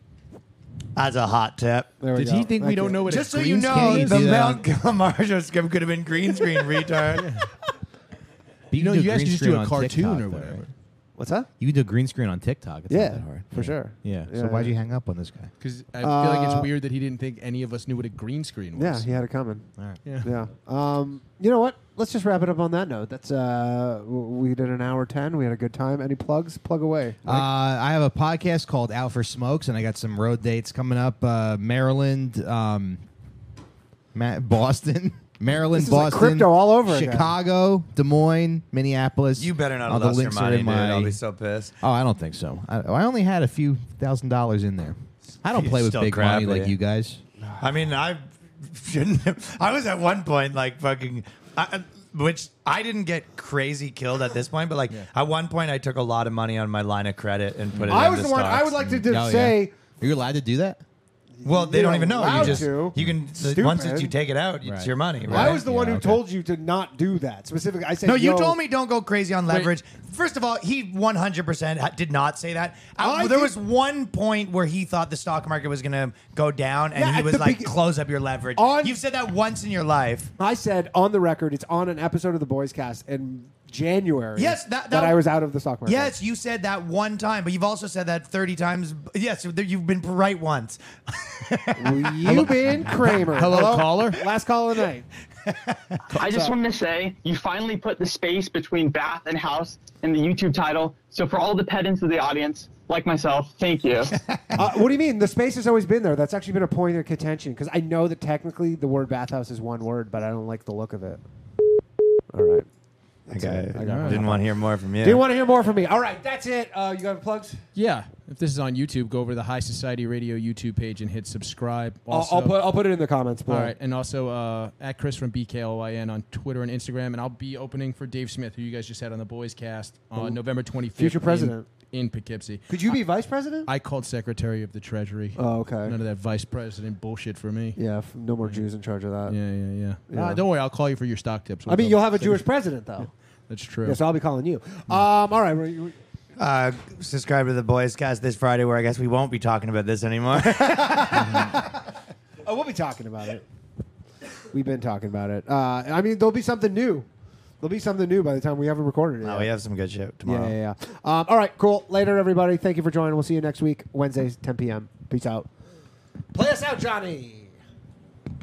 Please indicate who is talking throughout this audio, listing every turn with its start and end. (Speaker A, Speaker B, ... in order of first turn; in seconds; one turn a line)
Speaker A: 0.9-1.9
Speaker B: 2.0-3.1
Speaker C: 2.1-4.3
Speaker A: 3.0-7.3
Speaker D: 3.6-4.6
Speaker C: 7.2-7.5
Speaker D: 8.7-10.6
Speaker C: 8.7-10.7
Speaker B: 11.2-11.5
Speaker D: 11.6-15.5
Speaker B: 12.9-14.7
Speaker C: 15.6-19.2
Speaker B: 16.0-16.7
Speaker B: 18.8-19.6
Speaker B: 20.2-27.4
Speaker D: 27.2-33.0
Speaker D: 34.1-41.2
Speaker B: 35.7-37.3
Speaker A: 39.4-41.7
Speaker D: 41.8-47.2
Speaker A: 45.5-46.7
Speaker A: 47.6-58.8
Speaker B: 57.9-59.7
Speaker D: 58.8-60.8
Speaker B: 61.4-64.1
Speaker A: 61.4-65.6
Speaker D: 62.2-63.2
Speaker D: 64.6-66.2
Speaker B: 65.3-68.5
Speaker A: 68.0-80.3
Speaker C: 69.5-69.7
Speaker B: 73.0-73.5
Speaker B: 76.9-77.8
Speaker B: 78.5-79.0
Speaker B: 80.4-86.1
Speaker A: 84.3-85.2
Speaker A: 85.8-92.1
Speaker B: 91.8-95.1
Speaker C: 92.3-94.2
Speaker A: 95.5-96.0
Speaker E: 96.1-104.2
Speaker B: 104.5-111.2
Speaker B: 112.3-112.7
Speaker B: 113.3-114.5
Speaker A: 113.3-115.2
Speaker C: 113.8-114.2
Speaker D: 113.9-114.2
Speaker B: 115.0-117.6
Speaker C: 117.7-122.8
Speaker B: 122.1-123.7
Speaker C: 123.5-133.0
Speaker B: 130.9-131.6
Speaker B: 132.7-133.7
Speaker C: 133.7-137.8
Speaker B: 135.4-135.9
Speaker B: 137.8-139.3
Speaker C: 139.3-142.4
Speaker B: 140.1-140.4
Speaker B: 141.7-143.1
Speaker C: 143.5-144.0
Speaker B: 143.8-145.9
Speaker A: 146.4-151.3
Speaker B: 150.4-151.7
Speaker B: 152.4-153.4
Speaker B: 154.5-157.1
Speaker B: 157.6-159.5
Speaker A: 159.2-160.5
Speaker B: 160.2-165.5
Speaker B: 166.3-167.6